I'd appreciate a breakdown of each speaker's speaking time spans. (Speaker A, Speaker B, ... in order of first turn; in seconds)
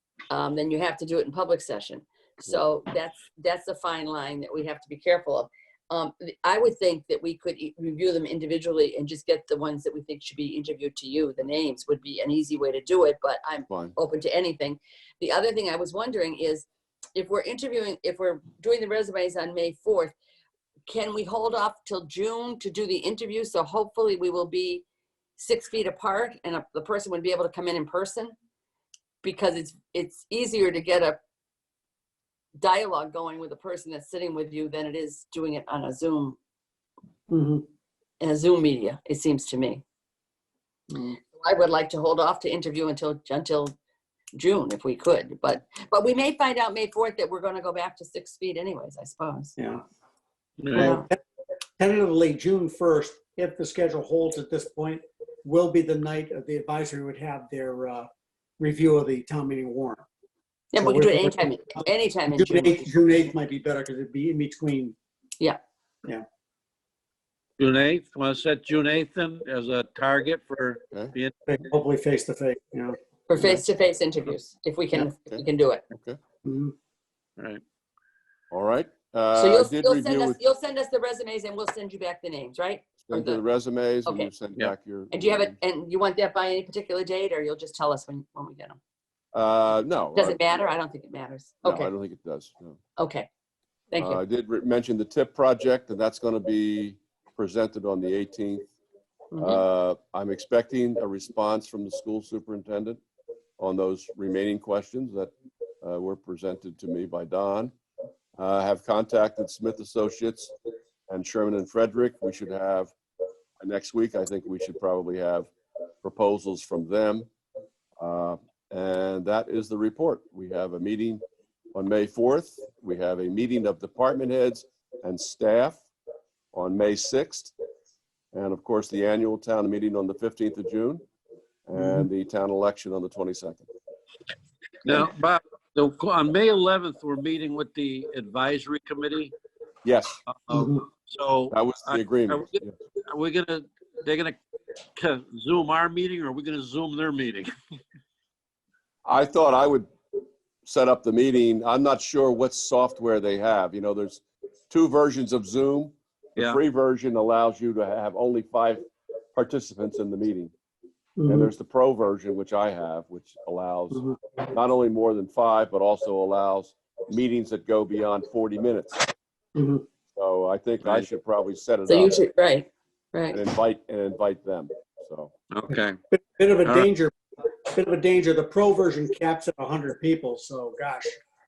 Speaker A: 0.3-20.1, 20.9-24.9, 25.4-28.3, 29.2-31.2, 32.6-36.4, 38.2-39.8, 41.3-43.8, 44.4-49.6, 50.8-51.1, 60.7-62.8, 73.3-75.8, 79.3-83.4, 85.1-88.8, 90.2-91.9, 93.0-93.3, 93.9-94.2, 99.3-99.6, 171.9-173.4
Speaker B: 13.7-14.0, 75.3-76.2, 78.5-80.4, 83.1-85.6, 89.3-90.7, 91.6-92.8, 94.0-98.7, 99.4-103.0, 103.6-107.7, 108.4-110.5, 111.1-112.9, 113.6-115.5, 116.0-117.3, 118.0-121.2, 121.8-125.8, 126.5-127.5, 128.3-131.0, 131.7-133.7, 139.8-140.2, 141.5-142.7, 149.1-149.9, 150.7-160.5, 161.3-169.1, 170.1-172.2, 173.3-175.3
Speaker C: 37.3-37.7, 40.9-41.2, 49.6-49.8, 50.7-51.2, 51.8-58.1, 58.6-60.0, 60.8-65.0, 71.5-73.6, 76.5-76.7, 131.8-132.1, 140.5-140.8, 161.2-161.5, 169.6-169.8, 176.1-181.2
Speaker D: 50.6-51.0, 67.6-71.3, 134.8-139.3, 140.3-144.4, 145.0-147.5, 170.8-171.1, 175.5-176.0